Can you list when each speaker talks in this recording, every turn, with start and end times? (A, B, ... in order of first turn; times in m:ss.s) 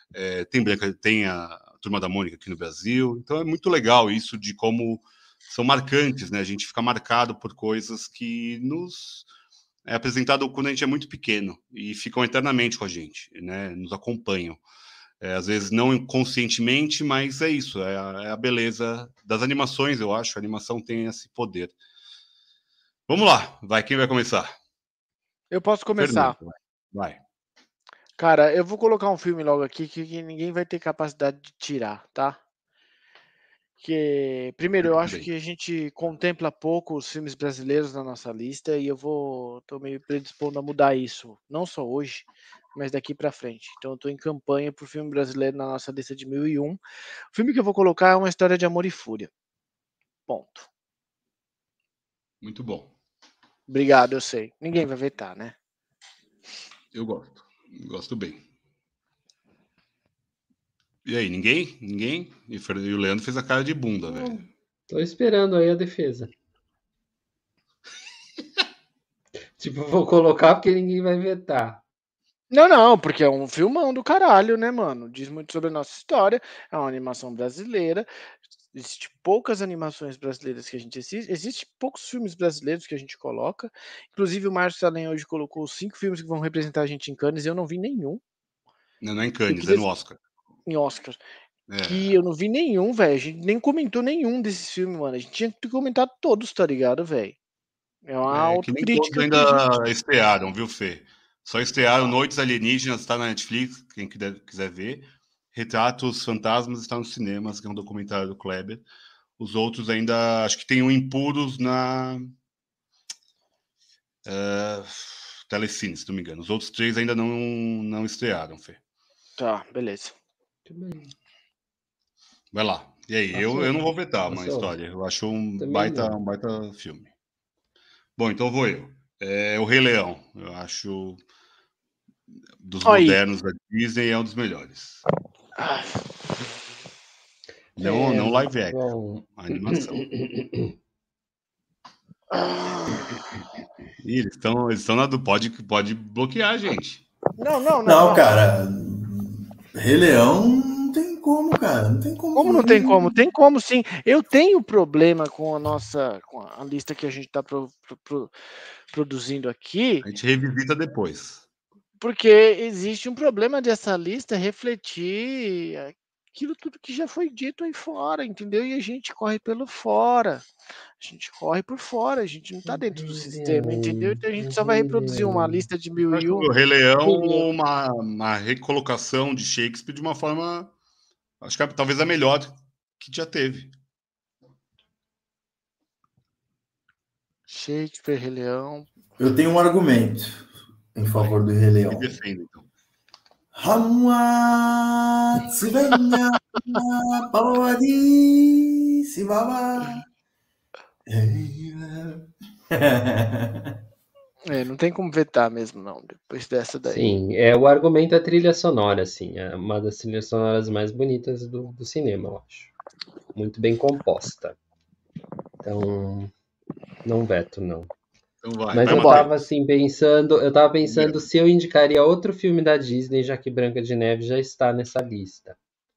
0:00.1-0:09.2 A
0:09.8-0:14.6 A
0:15.2-0:21.7 A
0:23.1-0:24.5 A
0:25.5-0:26.4 B
0:26.0-0:27.2 A
0:28.2-0:32.4 B
0:33.8-0:46.8 B
0:34.8-0:35.3 A
0:47.3-0:49.3 B
0:50.3-0:50.7 B
0:52.4-0:52.9 A
0:53.7-0:55.6 B
0:56.9-0:58.4 A
1:01.0-1:04.4 A
1:04.1-1:04.4 C
1:04.9-1:06.3 C
1:09.6-1:11.8 C
1:12.5-1:18.0 B
1:18.7-1:28.2 B
1:29.0-1:30.2 A
1:29.5-1:29.8 B
1:30.7-1:31.2 B
1:31.7-1:32.2 A
1:31.8-1:37.4 B
1:38.0-1:39.6 B
1:38.3-1:48.8 A
1:49.4-1:52.3 A
1:54.2-1:58.8 A
1:59.4-2:00.1 B
2:00.6-2:01.1 C
2:02.5-2:07.1 A
2:03.3-2:04.7 C
2:05.6-2:06.2 C
2:08.2-2:11.2 A
2:12.6-2:15.0 A
2:12.8-2:13.2 B
2:15.6-2:16.1 B
2:17.8-2:20.1 A
2:17.8-2:20.7 C
2:22.3-2:23.1 B
2:24.0-2:27.0 A
2:27.4-2:28.4 B
2:27.8-2:33.1 D
2:32.3-2:38.3 B
2:38.9-2:40.0 B
2:40.0-2:41.4 A
2:42.0-2:50.5 B
2:51.0-2:56.5 B
2:52.7-2:55.6 C
2:56.0-3:00.7 A
2:57.0-2:57.4 B
3:01.4-3:03.7 A
3:07.5-3:08.9 B
3:09.2-3:12.1 D
3:11.9-3:12.6 A
3:13.5-3:20.0 D
3:21.1-3:23.8 D
3:24.4-3:27.1 B
3:26.8-3:32.7 C
3:33.3-3:34.6 C
3:35.6-3:36.3 C
3:37.0-3:37.9 C
3:38.4-3:39.4 A
3:38.7-3:45.6 C
3:38.8-3:39.3 B
3:40.9-3:41.2 A